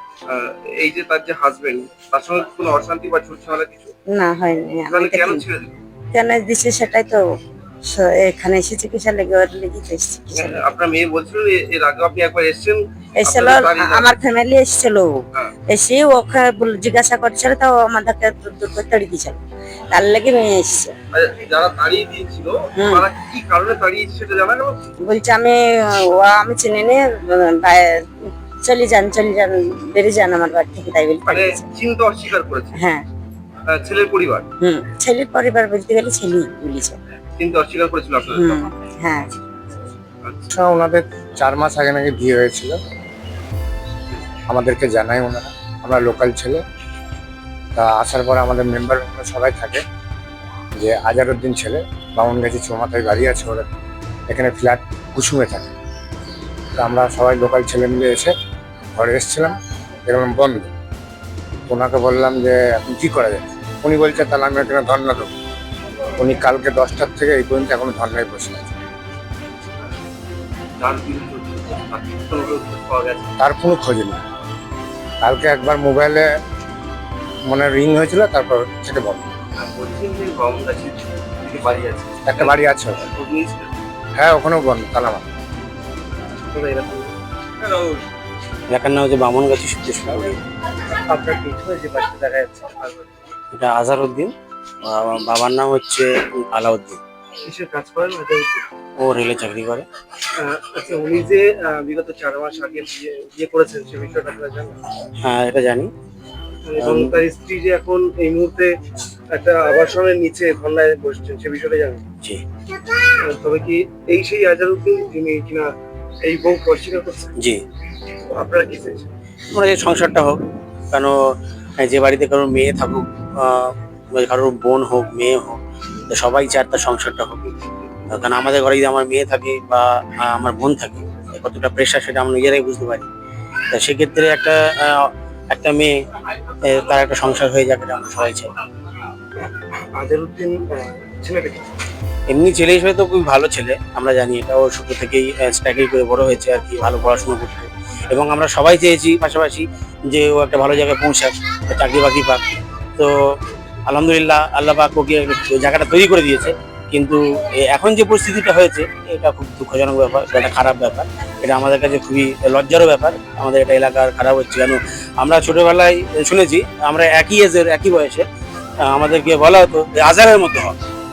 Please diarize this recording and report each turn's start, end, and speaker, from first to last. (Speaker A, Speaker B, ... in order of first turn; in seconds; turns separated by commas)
Speaker A: 0.3-3.9, Speaker B: 4.1-5.4, Speaker A: 4.9-5.7, Speaker B: 6.1-7.2, Speaker B: 7.9-10.6, Speaker A: 10.3-14.1, Speaker B: 13.2-15.2, Speaker B: 15.7-19.4, Speaker B: 19.9-20.9, Speaker A: 21.1-24.8, Speaker B: 22.8-23.1, Speaker B: 25.1-31.6, Speaker A: 31.3-32.8, Speaker B: 32.8-33.1, Speaker A: 33.7-34.5, Speaker B: 34.6-37.0, Speaker A: 37.4-38.7, Speaker B: 38.3-39.4, Speaker A: 40.2-40.5, Speaker C: 40.5-42.8, Speaker C: 44.5-46.6, Speaker C: 47.7-49.8, Speaker C: 50.8-53.7, Speaker C: 54.3-55.7, Speaker C: 56.8-58.3, Speaker C: 58.9-60.7, Speaker C: 61.7-65.3, Speaker C: 66.2-68.8, Speaker A: 70.8-73.3, Speaker C: 73.4-74.2, Speaker C: 75.2-76.3, Speaker C: 77.4-79.3, Speaker A: 79.6-83.7, Speaker C: 82.2-83.1, Speaker C: 84.1-85.2, Speaker A: 86.5-88.0, Speaker D: 88.7-90.4, Speaker A: 91.1-93.2, Speaker D: 93.5-94.3, Speaker D: 94.8-97.0, Speaker A: 97.4-98.6, Speaker D: 99.0-99.9, Speaker A: 100.4-104.8, Speaker D: 105.2-105.9, Speaker A: 106.7-108.7, Speaker D: 106.8-107.2, Speaker A: 109.3-112.0, Speaker A: 113.2-115.7, Speaker A: 116.2-117.3, Speaker A: 118.3-119.1, Speaker D: 119.5-120.4, Speaker D: 120.9-121.2, Speaker D: 121.8-125.6, Speaker D: 126.1-127.5, Speaker D: 128.1-133.1, Speaker D: 133.7-135.9, Speaker D: 136.7-138.5, Speaker A: 139.9-141.7, Speaker D: 142.3-152.4, Speaker D: 153.0-168.2, Speaker D: 168.8-170.7